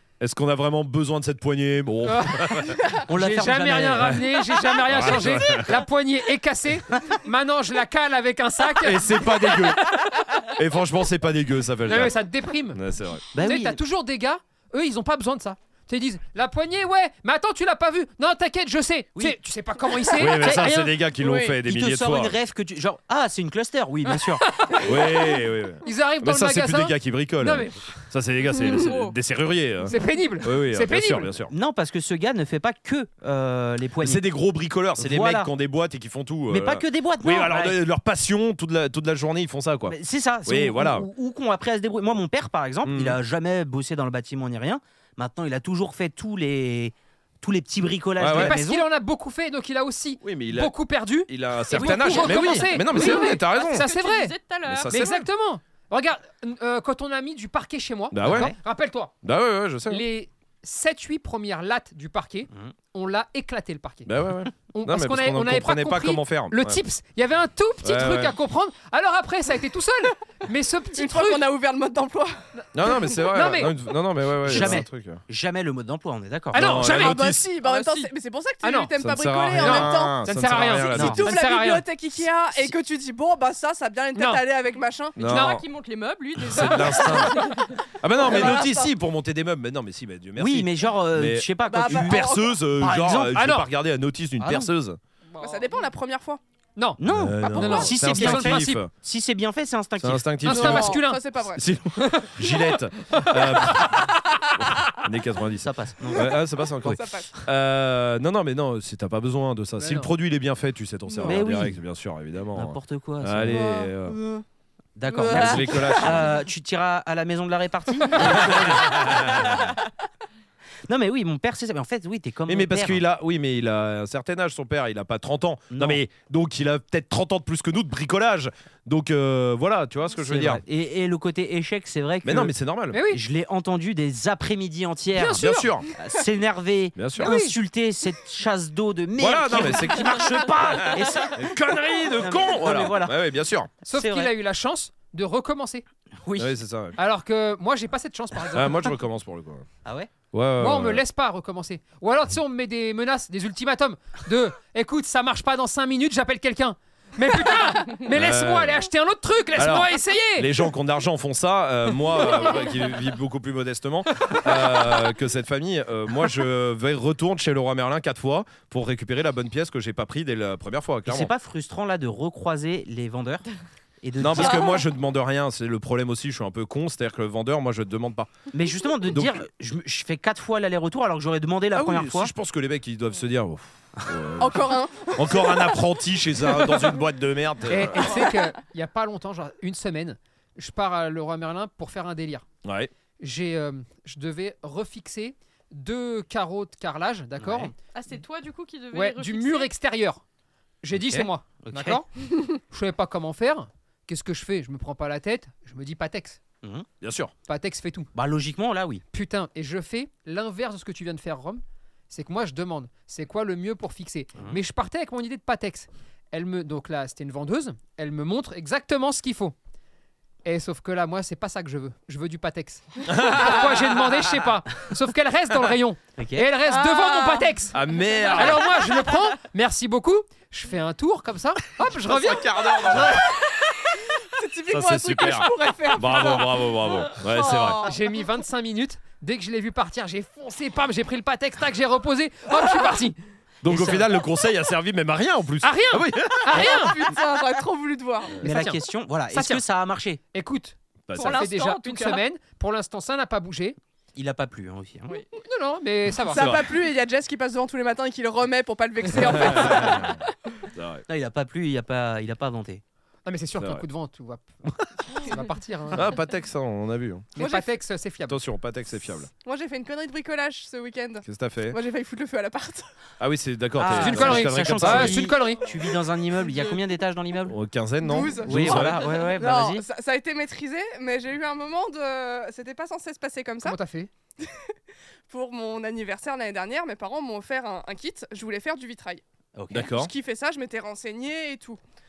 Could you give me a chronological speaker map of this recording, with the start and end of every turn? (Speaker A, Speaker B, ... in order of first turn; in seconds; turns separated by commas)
Speaker A: 0.2-2.8, Speaker B: 2.0-10.3, Speaker C: 3.0-4.2, Speaker A: 4.9-5.8, Speaker A: 8.8-12.2, Speaker B: 11.8-12.8, Speaker A: 12.7-13.2, Speaker C: 13.3-13.8, Speaker B: 13.3-20.5, Speaker A: 20.1-22.3, Speaker C: 20.2-21.1, Speaker D: 21.2-21.5, Speaker C: 21.6-24.5, Speaker B: 24.6-24.9, Speaker A: 24.8-31.5, Speaker B: 25.8-28.0, Speaker E: 28.6-29.1, Speaker B: 29.9-31.3, Speaker C: 31.5-34.2, Speaker A: 34.0-39.9, Speaker C: 35.0-35.5, Speaker C: 36.5-37.8, Speaker C: 39.9-48.9, Speaker A: 40.5-41.1, Speaker A: 42.8-43.2, Speaker A: 48.2-48.6, Speaker B: 48.3-59.1, Speaker A: 50.2-53.9, Speaker C: 51.7-52.0, Speaker E: 51.8-54.9, Speaker A: 54.7-55.2, Speaker A: 58.1-58.5, Speaker C: 58.2-58.5, Speaker A: 59.2-60.0, Speaker B: 59.9-64.1, Speaker A: 64.0-66.8, Speaker B: 64.7-71.5, Speaker A: 67.8-68.3, Speaker D: 70.9-72.4, Speaker B: 72.5-73.7, Speaker A: 72.7-75.2, Speaker C: 74.4-76.8, Speaker B: 76.5-77.2, Speaker A: 76.5-77.4, Speaker D: 76.9-80.2, Speaker E: 77.6-78.1, Speaker B: 78.6-78.9, Speaker A: 79.0-81.3, Speaker B: 79.5-81.8, Speaker D: 80.8-85.3, Speaker C: 80.9-81.2, Speaker B: 84.1-84.4, Speaker A: 85.2-85.6, Speaker E: 85.2-87.7, Speaker B: 85.2-85.6, Speaker A: 86.4-95.0, Speaker D: 87.3-87.5, Speaker D: 88.2-88.9, Speaker C: 90.3-93.3, Speaker D: 91.6-92.6, Speaker B: 93.3-93.7, Speaker C: 94.4-94.7, Speaker E: 95.3-95.8, Speaker D: 95.4-96.4, Speaker B: 96.8-98.8, Speaker C: 97.0-100.3, Speaker A: 97.1-98.9, Speaker A: 100.0-101.0, Speaker B: 100.4-101.2, Speaker D: 100.5-101.6, Speaker A: 101.5-114.2, Speaker B: 102.0-102.5, Speaker C: 105.6-107.0, Speaker D: 106.8-107.4, Speaker B: 109.8-110.1, Speaker C: 111.2-111.8, Speaker C: 112.5-113.7, Speaker D: 113.5-114.4, Speaker C: 115.0-119.7, Speaker D: 115.1-116.1, Speaker A: 115.2-116.4, Speaker A: 118.2-119.7, Speaker C: 120.9-123.0, Speaker A: 122.5-130.6, Speaker C: 125.7-126.0, Speaker C: 130.2-132.5, Speaker A: 132.2-133.0, Speaker B: 132.9-133.2, Speaker C: 133.0-141.6, Speaker B: 135.1-135.7, Speaker A: 135.3-135.9, Speaker A: 136.9-137.3, Speaker B: 137.2-137.6, Speaker A: 139.2-143.7, Speaker C: 142.1-143.2, Speaker C: 143.8-144.3, Speaker B: 143.8-145.8, Speaker C: 146.2-146.5, Speaker A: 146.4-147.0, Speaker B: 146.9-148.9, Speaker A: 148.5-149.7, Speaker C: 149.8-150.1, Speaker A: 150.3-151.0, Speaker B: 150.6-160.5, Speaker A: 158.1-158.8, Speaker A: 159.6-171.3, Speaker C: 171.1-173.4, Speaker C: 174.0-174.8, Speaker A: 174.2-178.3, Speaker C: 178.5-182.3, Speaker A: 179.1-179.4, Speaker A: 181.7-188.2, Speaker D: 184.4-185.8, Speaker D: 186.6-186.9, Speaker B: 187.7-192.4, Speaker A: 192.6-192.9, Speaker B: 193.2-197.7, Speaker C: 197.4-197.7, Speaker E: 197.9-199.7, Speaker B: 198.9-200.2, Speaker B: 200.8-206.4, Speaker C: 200.9-202.0, Speaker A: 207.0-207.3, Speaker B: 207.5-208.1, Speaker C: 208.1-209.0, Speaker B: 209.1-219.5, Speaker B: 220.4-227.8, Speaker A: 223.1-224.1, Speaker C: 226.2-226.5, Speaker D: 226.6-229.1, Speaker A: 227.7-228.7, Speaker B: 228.3-233.2, Speaker A: 232.0-233.3, Speaker D: 232.9-238.0, Speaker A: 234.7-237.9, Speaker B: 237.8-243.2, Speaker C: 243.6-244.1, Speaker A: 243.6-246.8, Speaker B: 245.6-247.0, Speaker D: 246.6-248.4, Speaker C: 248.4-250.2, Speaker B: 248.4-248.8, Speaker B: 249.3-249.6, Speaker B: 250.3-253.8, Speaker A: 251.1-251.4, Speaker E: 251.1-252.2, Speaker C: 254.1-255.1, Speaker B: 255.4-256.5, Speaker A: 256.3-256.7, Speaker D: 256.3-260.2, Speaker A: 259.2-260.2, Speaker A: 260.7-261.0, Speaker C: 261.1-262.8, Speaker B: 263.2-264.5, Speaker B: 265.1-266.1, Speaker A: 265.9-267.3, Speaker B: 267.4-268.4, Speaker D: 267.4-267.7, Speaker A: 268.3-269.3, Speaker D: 269.4-272.9, Speaker A: 271.2-271.8, Speaker A: 273.2-275.3, Speaker C: 273.8-277.6, Speaker B: 273.9-275.6, Speaker E: 276.4-276.7, Speaker A: 277.5-279.1, Speaker D: 278.0-283.8, Speaker C: 278.4-279.9, Speaker B: 283.6-284.1, Speaker D: 284.4-284.7, Speaker D: 285.3-289.2, Speaker C: 289.5-289.9, Speaker A: 289.7-290.1, Speaker D: 289.8-291.8